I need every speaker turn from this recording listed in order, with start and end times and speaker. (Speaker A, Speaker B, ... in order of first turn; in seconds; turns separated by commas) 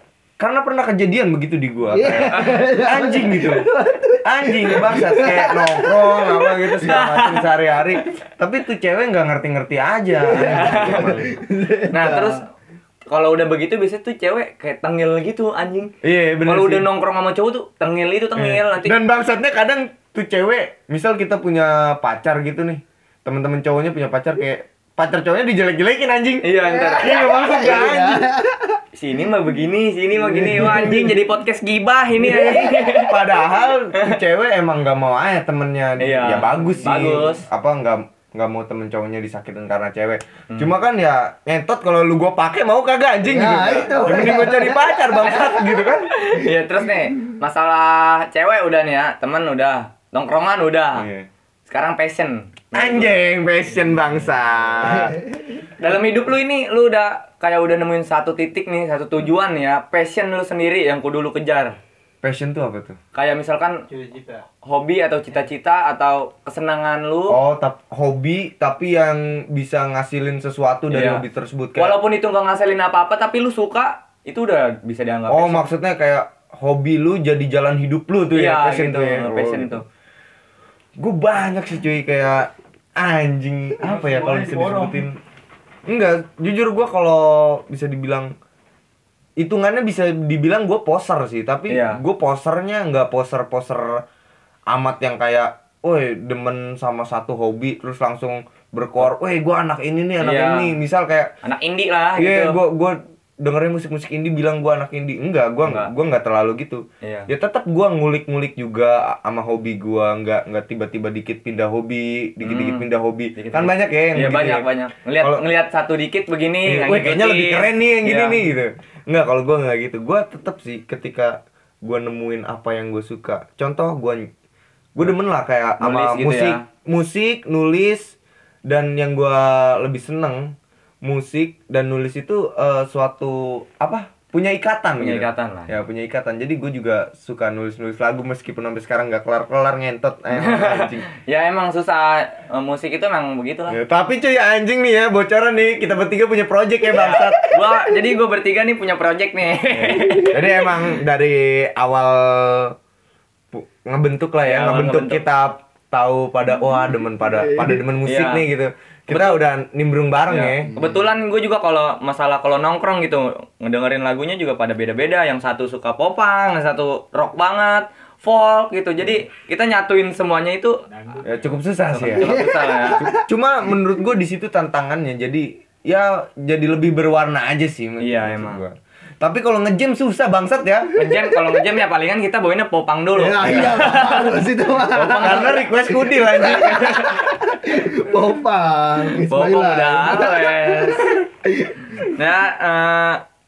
Speaker A: 0.4-3.7, Speaker B: 1.9-7.0, Speaker A: 4.2-11.3, Speaker C: 6.8-7.5, Speaker B: 10.2-12.4, Speaker C: 10.3-11.1, Speaker C: 11.9-12.4, Speaker C: 13.1-15.9, Speaker A: 16.0-16.9, Speaker C: 16.4-19.0, Speaker A: 18.4-28.3, Speaker C: 26.4-27.1, Speaker B: 26.7-28.8, Speaker C: 29.0-33.2, Speaker B: 30.3-31.1, Speaker A: 30.6-31.0, Speaker A: 32.2-46.1, Speaker C: 36.0-37.5, Speaker B: 43.2-45.8, Speaker C: 46.1-51.1, Speaker A: 50.9-51.3, Speaker C: 51.7-53.2, Speaker A: 52.7-55.2, Speaker C: 55.8-61.8, Speaker A: 62.2-63.0, Speaker C: 63.1-63.8, Speaker D: 63.9-64.4, Speaker C: 64.6-67.4, Speaker A: 67.3-72.0, Speaker C: 70.9-71.2, Speaker C: 71.8-75.7, Speaker A: 75.3-79.8, Speaker C: 78.3-79.8, Speaker A: 81.0-85.2, Speaker D: 83.8-85.0, Speaker A: 85.9-88.3, Speaker A: 89.4-94.0, Speaker C: 91.7-92.0, Speaker A: 94.7-101.3, Speaker C: 100.2-100.7, Speaker C: 101.4-102.6, Speaker A: 102.2-114.7, Speaker C: 105.7-105.9, Speaker C: 107.0-107.3, Speaker C: 112.4-118.4, Speaker A: 116.7-124.3, Speaker A: 125.0-128.2, Speaker C: 125.8-126.7, Speaker A: 128.7-141.1, Speaker C: 135.0-135.7, Speaker C: 140.3-143.8, Speaker A: 143.7-147.4, Speaker C: 146.9-150.4, Speaker B: 147.6-148.0, Speaker B: 149.9-150.9, Speaker A: 150.3-152.8, Speaker A: 153.5-160.8, Speaker C: 154.4-155.2, Speaker B: 157.2-157.8, Speaker C: 158.0-158.4, Speaker C: 159.1-159.4, Speaker C: 160.3-170.8, Speaker D: 171.1-171.4, Speaker A: 171.2-172.4, Speaker C: 171.9-173.0, Speaker B: 172.2-173.2, Speaker A: 173.0-180.9, Speaker C: 178.0-178.6, Speaker C: 181.0-184.4, Speaker B: 183.2-192.1, Speaker A: 183.4-183.7, Speaker A: 184.9-187.1, Speaker C: 185.2-185.4, Speaker C: 186.6-187.2, Speaker C: 189.3-191.0, Speaker C: 192.1-193.2